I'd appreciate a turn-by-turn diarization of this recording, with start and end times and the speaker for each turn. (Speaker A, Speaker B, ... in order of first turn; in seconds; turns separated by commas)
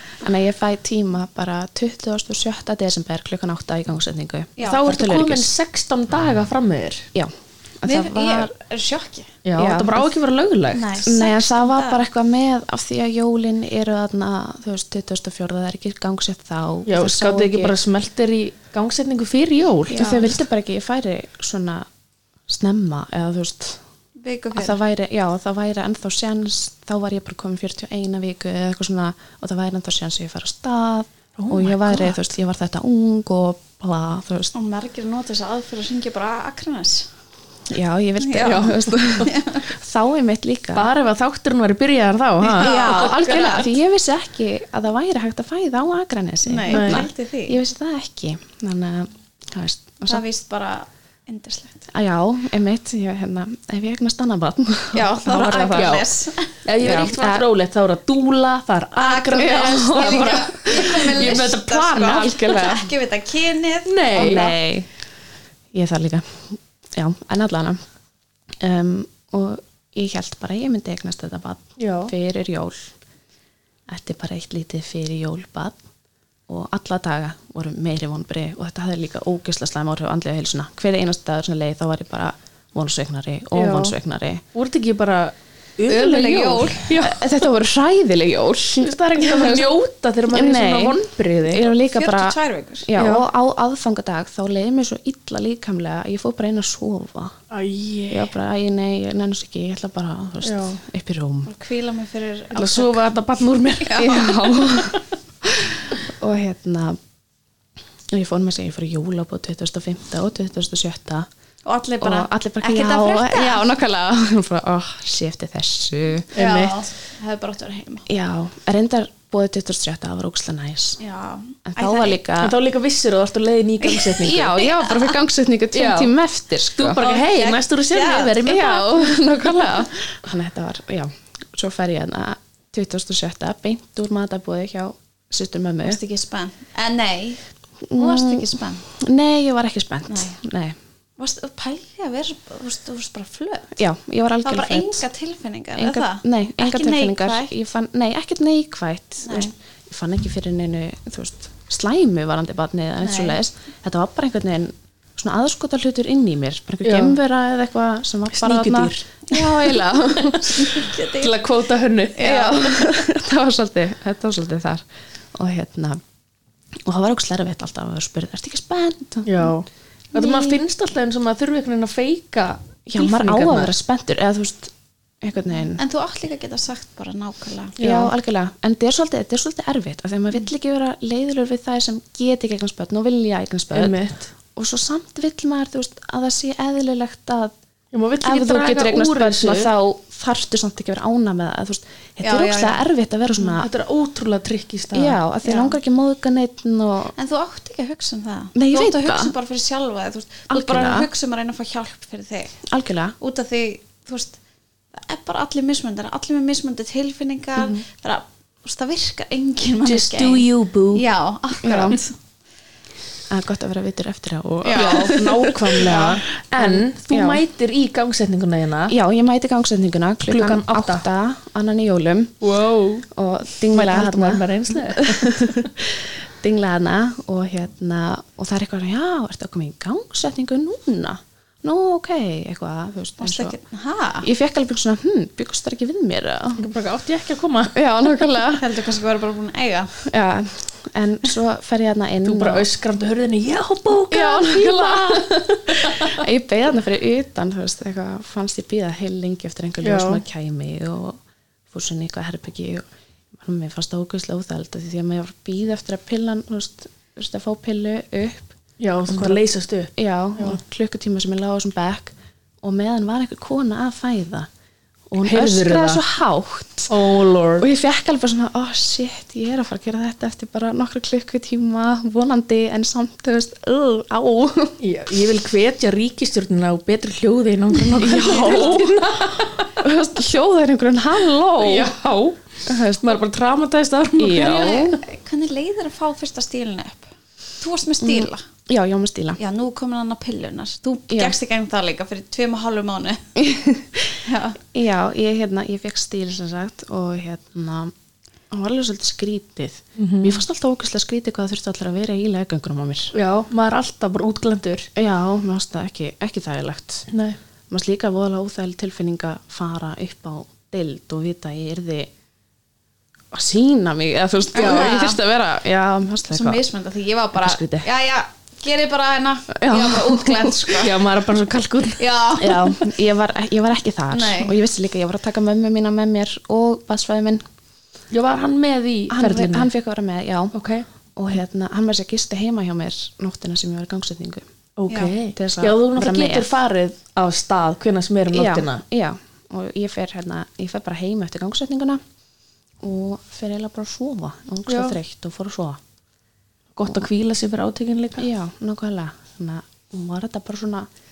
Speaker A: 0.2-5.5, Speaker B: 4.6-4.9, Speaker C: 4.6-7.0, Speaker A: 7.1-8.5, Speaker B: 7.8-9.3, Speaker C: 9.4-11.1, Speaker A: 9.6-10.1, Speaker B: 10.7-12.0, Speaker A: 11.0-17.7, Speaker C: 16.9-20.4, Speaker A: 19.9-21.9, Speaker A: 22.5-23.8, Speaker B: 24.2-24.8, Speaker A: 24.5-34.5, Speaker C: 31.4-32.2, Speaker B: 34.5-37.1, Speaker A: 37.7-40.9, Speaker B: 38.2-38.7, Speaker C: 38.4-39.3, Speaker B: 39.2-39.6, Speaker C: 40.7-42.7, Speaker A: 42.4-50.2, Speaker B: 42.5-43.7, Speaker B: 46.4-47.6, Speaker C: 46.7-47.1, Speaker B: 50.0-51.9, Speaker A: 51.9-56.0, Speaker B: 54.9-56.6, Speaker C: 55.7-56.1, Speaker C: 56.6-62.8, Speaker A: 56.8-57.4, Speaker B: 58.9-64.6, Speaker A: 59.4-61.3, Speaker A: 62.1-62.8, Speaker C: 63.9-64.5, Speaker A: 64.2-64.9, Speaker A: 65.7-67.8, Speaker A: 68.6-72.9, Speaker C: 71.8-72.1, Speaker A: 73.9-75.8, Speaker A: 76.5-84.4, Speaker C: 83.5-84.0, Speaker C: 84.5-87.2, Speaker B: 85.9-86.9, Speaker A: 86.9-89.7, Speaker C: 88.8-91.7, Speaker A: 90.3-97.4, Speaker B: 91.8-92.9, Speaker C: 93.0-93.3, Speaker C: 97.5-98.3, Speaker A: 98.1-101.5, Speaker C: 100.4-100.8, Speaker B: 101.5-103.0, Speaker C: 102.5-105.0, Speaker B: 103.8-104.4, Speaker A: 103.9-107.0, Speaker A: 108.1-111.3, Speaker B: 111.7-113.7, Speaker A: 112.0-116.3, Speaker C: 116.3-116.8, Speaker B: 116.3-118.1, Speaker A: 118.1-121.0, Speaker B: 121.0-122.2, Speaker A: 121.7-122.5, Speaker C: 122.4-124.5, Speaker B: 123.9-125.0, Speaker A: 124.2-127.0, Speaker C: 125.7-126.1, Speaker C: 126.8-129.2, Speaker B: 127.0-128.4, Speaker A: 128.4-136.0, Speaker B: 135.8-137.4, Speaker A: 137.9-140.8, Speaker B: 137.9-138.8, Speaker B: 140.1-140.4, Speaker B: 141.2-143.8, Speaker A: 143.8-145.0, Speaker B: 144.4-147.5, Speaker A: 145.8-160.9, Speaker B: 149.2-149.5, Speaker C: 153.0-153.4, Speaker C: 156.8-157.2, Speaker C: 158.3-159.7, Speaker C: 160.2-162.3, Speaker B: 160.5-161.4, Speaker B: 162.2-163.0, Speaker A: 162.2-166.0, Speaker A: 166.8-169.5, Speaker C: 169.2-173.7, Speaker A: 170.1-170.6, Speaker A: 172.9-175.8, Speaker B: 175.8-177.8, Speaker C: 177.8-178.1, Speaker A: 177.8-184.0, Speaker C: 183.7-184.3, Speaker A: 184.6-187.5, Speaker C: 187.9-189.7, Speaker A: 188.2-193.7, Speaker B: 192.2-192.8, Speaker C: 193.4-195.2, Speaker A: 194.9-197.1, Speaker B: 195.4-195.8, Speaker B: 197.2-202.5, Speaker A: 198.5-199.3, Speaker A: 200.5-201.1, Speaker A: 202.7-203.2, Speaker B: 203.2-204.4, Speaker B: 204.9-212.1, Speaker A: 207.6-207.8, Speaker C: 209.8-211.0, Speaker A: 211.6-212.0, Speaker A: 213.3-217.4, Speaker B: 214.6-216.2, Speaker C: 214.7-218.9, Speaker A: 218.9-222.3, Speaker C: 220.3-221.0, Speaker C: 222.4-223.1, Speaker A: 223.1-233.6, Speaker C: 223.7-225.7, Speaker B: 233.2-234.3, Speaker A: 234.2-236.6, Speaker C: 236.6-237.8, Speaker A: 237.7-238.7, Speaker B: 238.5-240.0, Speaker A: 240.0-242.7, Speaker C: 242.2-246.2, Speaker A: 244.1-251.2, Speaker C: 249.8-250.2, Speaker A: 251.7-258.5, Speaker C: 258.8-260.6, Speaker A: 259.1-259.4, Speaker A: 259.9-264.5, Speaker A: 265.1-267.1, Speaker C: 265.2-266.0, Speaker C: 266.9-267.7, Speaker A: 267.6-274.8, Speaker C: 274.8-279.8, Speaker A: 277.9-281.9, Speaker B: 278.2-278.8, Speaker C: 281.6-284.9, Speaker A: 282.6-283.2, Speaker A: 284.2-285.0, Speaker B: 284.3-287.1, Speaker B: 287.6-288.4, Speaker A: 288.0-289.4, Speaker B: 289.4-293.2, Speaker A: 291.1-291.4, Speaker A: 293.4-294.2, Speaker B: 294.2-294.6, Speaker A: 294.7-297.9, Speaker A: 298.5-303.1, Speaker C: 299.9-300.4, Speaker C: 303.1-304.9, Speaker A: 304.9-307.1, Speaker C: 307.1-307.4, Speaker A: 307.7-312.1, Speaker A: 313.3-316.6, Speaker B: 314.5-315.2, Speaker C: 314.6-315.0, Speaker B: 316.3-321.0, Speaker A: 317.4-317.9, Speaker A: 319.6-320.8, Speaker C: 320.8-322.1, Speaker B: 321.9-322.8, Speaker A: 322.4-327.4, Speaker B: 324.1-324.6, Speaker C: 328.1-329.7, Speaker A: 329.1-330.5, Speaker C: 330.5-330.9, Speaker A: 331.1-334.5, Speaker C: 334.8-338.8, Speaker B: 334.9-335.1, Speaker A: 335.3-336.5, Speaker A: 338.3-342.0, Speaker A: 342.8-345.8, Speaker C: 344.7-345.0, Speaker C: 346.7-348.2, Speaker A: 348.2-350.9